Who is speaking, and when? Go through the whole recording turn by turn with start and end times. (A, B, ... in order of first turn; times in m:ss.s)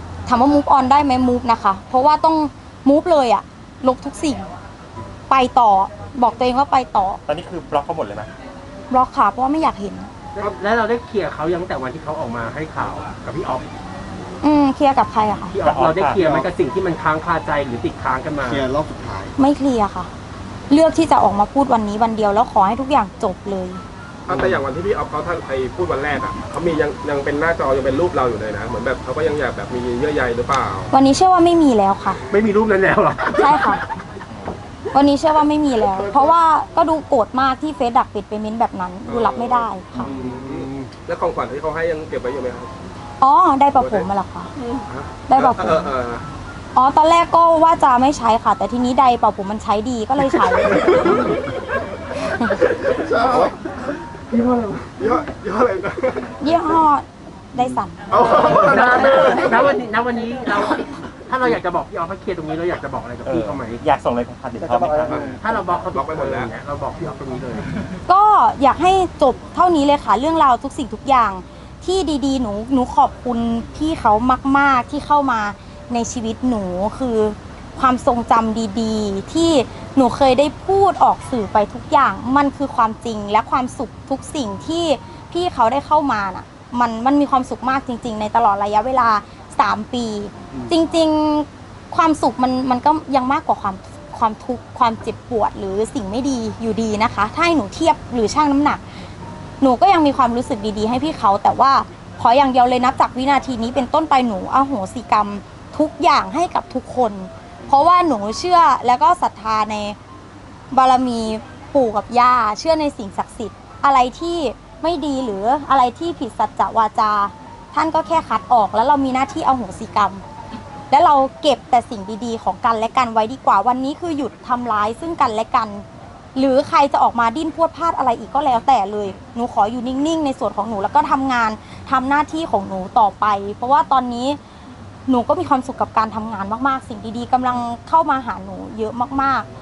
0:00.3-0:04.5 A
0:05.3-0:07.2 A
0:07.3-0:08.3 B
0:08.9-0:10.1 A
0:10.3-0:13.6 C
0:14.4-0:15.5 A
0:15.5-0:18.6 C
0:15.6-0:16.2 B
0:16.1-0:16.5 D
0:18.4-0:19.4 D
0:19.4-0:20.1 A
0:20.7-0:23.8 A
0:24.3-0:30.9 E
0:30.9-0:32.2 A
0:32.3-0:33.8 C
0:33.4-0:33.8 A
0:34.9-0:40.1 A
0:39.1-0:42.7 E
0:39.9-0:40.9 C
0:43.2-0:44.5 A
0:43.8-0:44.0 E
0:44.9-0:46.2 E
0:45.3-0:45.9 A
0:46.8-0:51.1 A
0:50.7-0:51.4 E
0:52.4-0:53.6 E
0:54.3-0:56.6 E
0:56.4-0:58.0 A
0:58.1-0:59.7 E
0:58.4-1:03.8 C
1:03.2-1:05.2 B
1:04.5-1:05.8 D
1:05.0-1:06.5 E
1:05.4-1:07.7 C
1:08.1-1:38.8 A
1:39.6-1:50.0 A
1:50.7-2:00.2 A
2:00.9-2:14.4 A
2:15.1-2:19.5 A